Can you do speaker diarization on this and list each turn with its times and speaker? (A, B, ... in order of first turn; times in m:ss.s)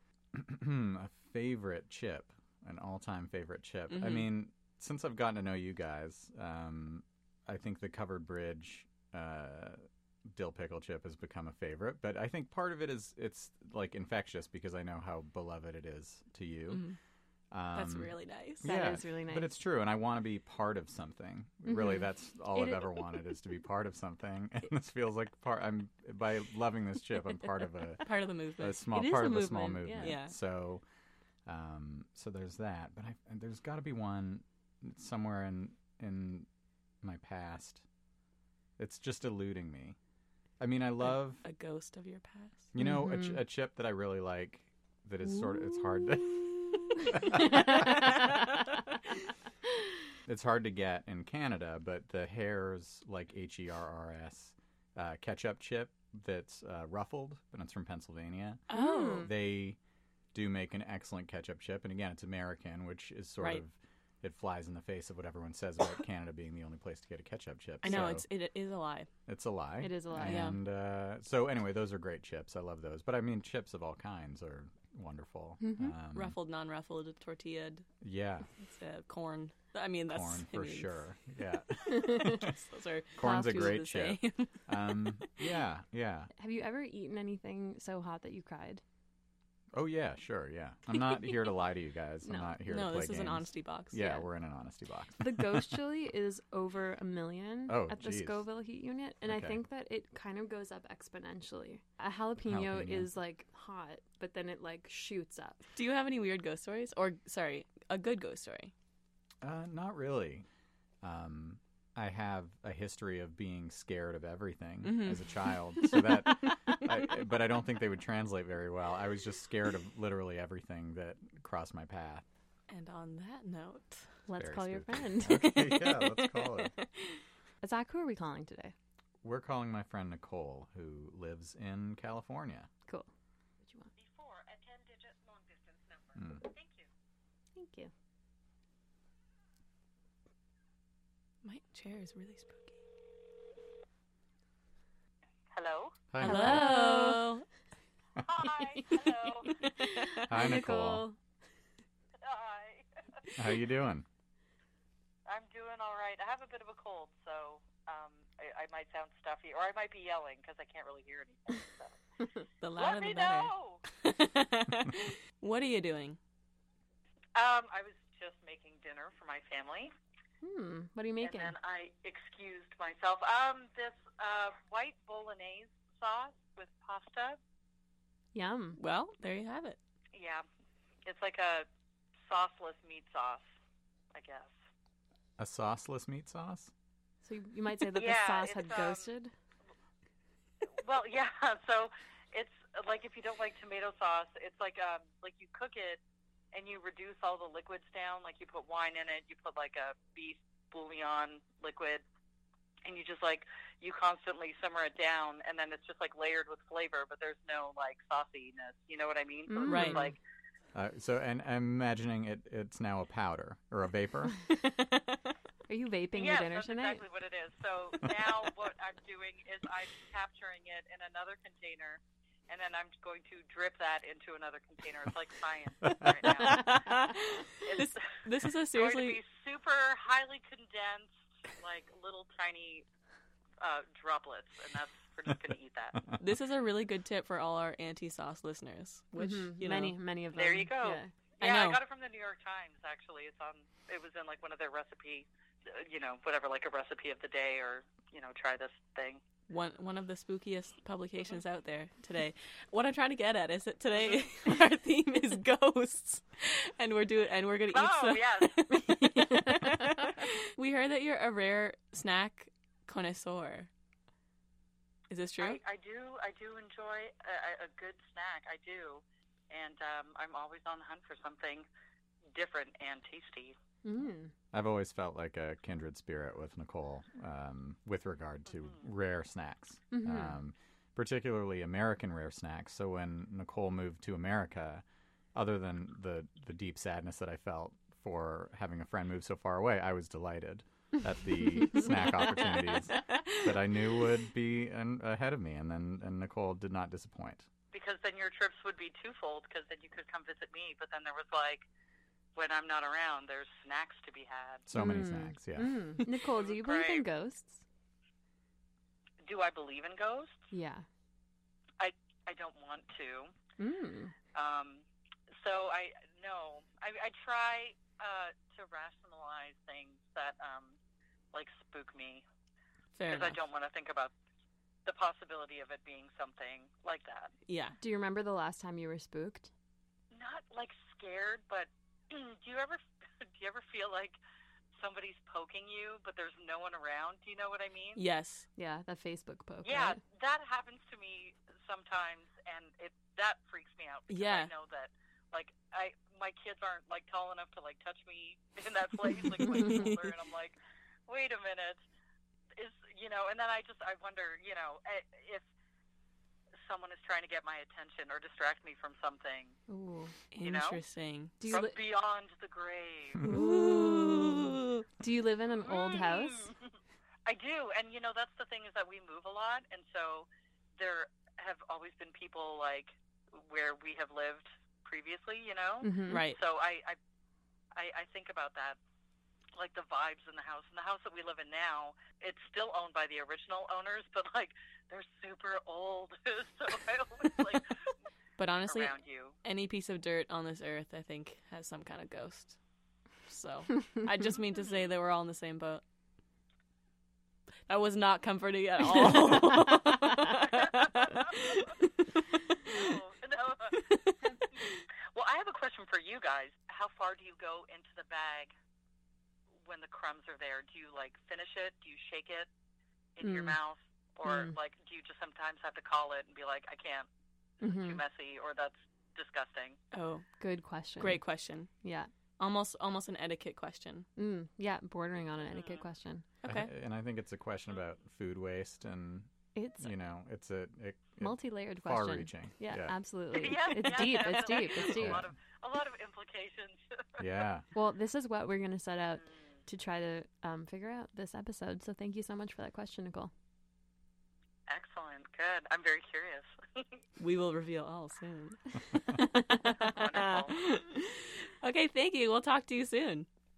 0:00.3-0:16.8 A
0:03.9-0:04.3 B
0:16.7-0:17.0 B
0:17.5-0:28.0 A
0:17.7-0:18.7 B
0:18.6-0:19.6 C
0:21.7-0:22.0 C
0:28.0-0:28.8 B
0:28.6-0:30.8 A
0:28.9-0:30.2 C
0:30.0-0:30.4 B
0:31.5-0:36.5 A
0:37.0-0:37.8 A
0:38.8-0:40.0 A
0:40.6-0:41.4 A
0:41.4-0:42.7 B
0:42.7-0:48.2 A
0:42.8-0:43.4 C
0:47.4-0:48.1 C
0:50.3-0:59.8 A
0:58.7-0:59.3 C
0:58.7-0:59.3 B
1:00.3-1:08.3 A
1:07.8-1:09.1 B
1:09.3-1:16.4 A
1:09.8-1:10.5 C
1:10.2-1:10.6 B
1:15.6-1:16.0 C
1:16.2-1:17.9 B
1:18.0-1:18.5 A
1:18.6-1:21.0 B
1:20.1-1:22.5 A
1:21.9-1:22.4 C
1:21.9-1:25.4 B
1:23.2-1:26.3 A
1:23.2-1:23.8 C
1:26.4-1:28.8 C
1:29.7-1:35.8 A
1:32.2-1:32.6 C
1:32.7-1:34.0 B
1:34.0-1:34.2 C
1:35.2-1:45.6 C
1:37.7-1:38.4 A
1:39.3-1:39.6 A
1:42.5-1:43.1 A
1:45.8-1:48.7 B
1:49.4-1:50.5 A
1:51.0-2:02.2 A
1:54.8-1:55.3 B
2:02.7-2:04.2 B
2:04.3-2:05.5 C
2:04.4-2:06.8 A
2:05.3-2:07.2 B
2:07.6-2:08.7 C
2:09.2-2:12.7 A
2:13.6-2:13.9 C
2:14.0-2:16.9 D
2:16.2-2:16.4 A
2:17.6-2:17.9 C
2:21.4-2:22.8 B
2:25.5-2:26.0 D
2:26.1-2:26.8 A
2:26.2-2:27.4 B
2:26.2-2:27.2 C
2:28.2-2:29.6 D
2:28.8-2:29.1 C
2:29.6-2:31.2 C
2:30.3-2:31.0 A
2:32.2-2:32.9 D
2:33.4-2:34.1 A
2:35.3-2:42.0 D
2:42.6-2:46.2 B
2:42.8-2:43.8 D
2:47.4-2:49.9 D
2:50.4-2:51.5 C
2:51.2-2:57.4 D
2:58.3-2:58.8 C
2:58.8-2:59.8 B
3:00.1-3:00.4 D
3:01.0-3:01.7 D
3:02.3-3:03.4 D
3:04.1-3:04.6 D
3:05.4-3:06.7 A
3:07.2-3:09.3 C
3:07.9-3:09.1 D
3:10.7-3:16.0 D
3:16.5-3:22.0 D
3:22.8-3:30.2 D
3:29.5-3:30.1 C
3:29.7-3:30.1 B
3:30.7-3:34.4 A
3:35.7-3:37.0 C
3:36.2-3:47.0 D
3:46.4-3:49.2 B
3:47.6-3:48.0 D
3:48.7-3:52.8 D
3:53.6-3:56.1 D
3:56.2-4:00.0 B
3:59.2-4:01.1 C
4:00.3-4:09.2 D
4:01.4-4:01.8 B
4:09.5-4:23.7 B
4:14.0-4:14.2 D
4:17.7-4:18.6 D
4:18.7-4:20.0 C
4:25.1-4:25.6 B
4:25.4-4:31.7 D
4:32.3-4:33.6 D
4:33.8-4:34.3 C
4:34.5-4:44.8 A
4:39.9-4:40.4 C
4:45.4-4:57.5 A
4:57.7-5:01.7 D
5:02.4-5:04.7 D
5:04.7-5:05.8 A
5:04.7-5:07.6 C
5:06.3-5:07.1 D
5:09.2-5:10.5 D
5:10.5-5:10.8 C
5:11.8-5:13.3 D
5:13.6-5:14.1 C
5:14.3-5:14.8 D
5:15.4-5:20.8 D
5:21.3-5:22.2 D
5:23.0-5:23.4 B
5:23.1-5:24.1 D
5:24.9-5:27.3 D
5:27.5-5:27.8 B
5:27.8-5:29.5 C
5:30.1-5:34.2 D
5:34.8-5:38.0 D
5:38.0-5:38.5 B
5:38.6-5:40.0 C
5:39.6-5:50.6 D
5:44.1-5:44.5 B
5:49.5-5:50.0 B
5:51.1-5:51.8 D
5:52.6-5:55.4 D
5:56.6-5:59.6 D
5:59.7-6:00.1 C
6:00.3-6:01.3 B
6:00.4-6:00.8 D
6:01.4-6:01.8 C
6:01.5-6:03.3 D
6:03.2-6:04.4 C
6:03.3-6:04.8 B
6:05.0-6:06.5 C
6:05.6-6:06.6 D
6:07.3-6:17.0 D
6:15.8-6:16.2 C
6:16.1-6:16.4 B
6:17.8-6:18.8 D
6:19.6-6:27.7 D
6:28.4-6:32.6 B
6:28.7-6:29.3 D
6:33.3-6:35.8 B
6:37.7-6:41.8 B
6:40.6-6:41.5 D
6:42.7-6:43.9 D
6:43.9-6:44.8 B
6:45.1-6:48.5 D
6:49.6-6:52.5 D
6:53.2-6:57.1 D
6:53.2-6:53.6 C
6:54.2-6:54.6 C
6:57.6-6:58.0 C
6:57.6-6:59.8 D
6:59.9-7:00.2 B
7:00.4-7:01.2 C
7:01.0-7:01.7 B
7:01.8-7:02.1 C
7:02.4-7:04.1 B
7:04.2-7:06.2 C
7:05.5-7:05.9 D
7:06.4-7:06.7 B
7:06.4-7:09.3 A
7:09.6-7:09.9 C
7:09.8-7:13.0 A
7:11.2-7:15.2 C
7:13.3-7:17.2 D
7:14.7-7:15.3 A
7:17.2-7:17.7 A
7:17.7-7:23.3 C
7:24.7-7:27.0 D
7:27.2-7:28.6 B
7:29.5-7:33.3 B
7:29.7-7:30.6 D